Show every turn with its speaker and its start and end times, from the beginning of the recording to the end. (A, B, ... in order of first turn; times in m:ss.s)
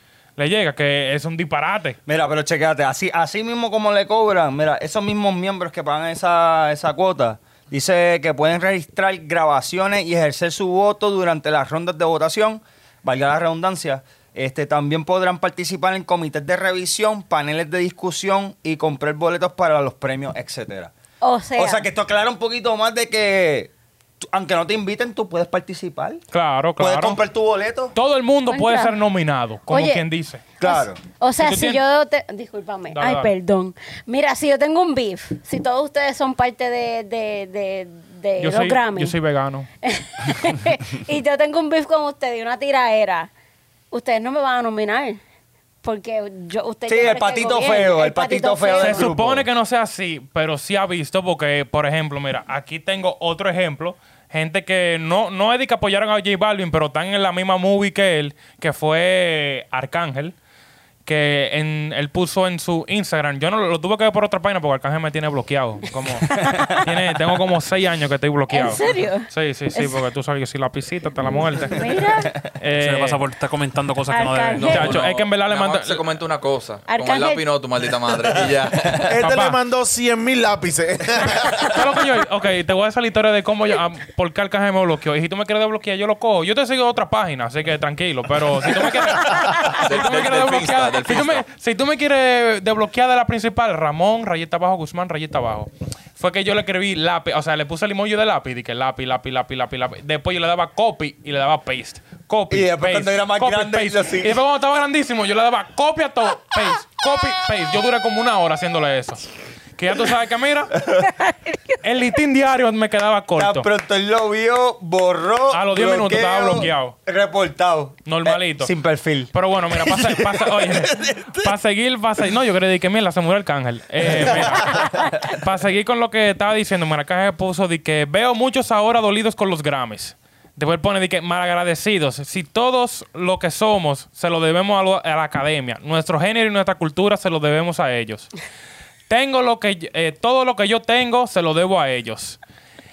0:00.4-0:02.0 A
0:02.0-0:20.9 B
0:21.2-0:21.8 C
0:21.6-0:26.2 B
0:26.3-0:27.2 A
0:26.8-0:27.9 B
0:27.9-0:30.4 A
0:28.5-0:28.9 C
0:29.7-0:30.0 C
0:30.6-0:31.0 B
0:30.6-0:39.1 C
0:31.4-0:31.8 A
0:32.9-0:33.3 A
0:38.4-0:39.7 A
0:39.8-0:43.3 C
0:43.9-0:45.2 C
0:45.8-0:49.1 C
0:46.9-0:49.4 B
0:48.8-1:00.3 A
1:01.0-1:12.0 A
1:06.2-1:06.8 B
1:06.3-1:06.8 C
1:08.5-1:10.0 C
1:11.2-1:12.4 C
1:12.5-1:13.2 A
1:12.7-1:15.0 D
1:14.1-1:15.0 C
1:14.6-1:19.0 E
1:14.6-1:16.0 A
1:16.9-1:17.4 C
1:18.8-1:19.1 B
1:18.9-1:22.0 F
1:19.2-1:19.6 A
1:21.6-1:50.7 A
1:29.6-1:31.4 E
1:42.5-1:44.4 B
1:50.8-1:51.1 B
1:51.8-1:53.7 A
1:53.4-2:01.6 B
1:55.5-1:56.9 A
1:58.0-1:58.7 A
1:59.3-2:18.3 A
2:04.0-2:05.2 B
2:19.1-2:22.4 A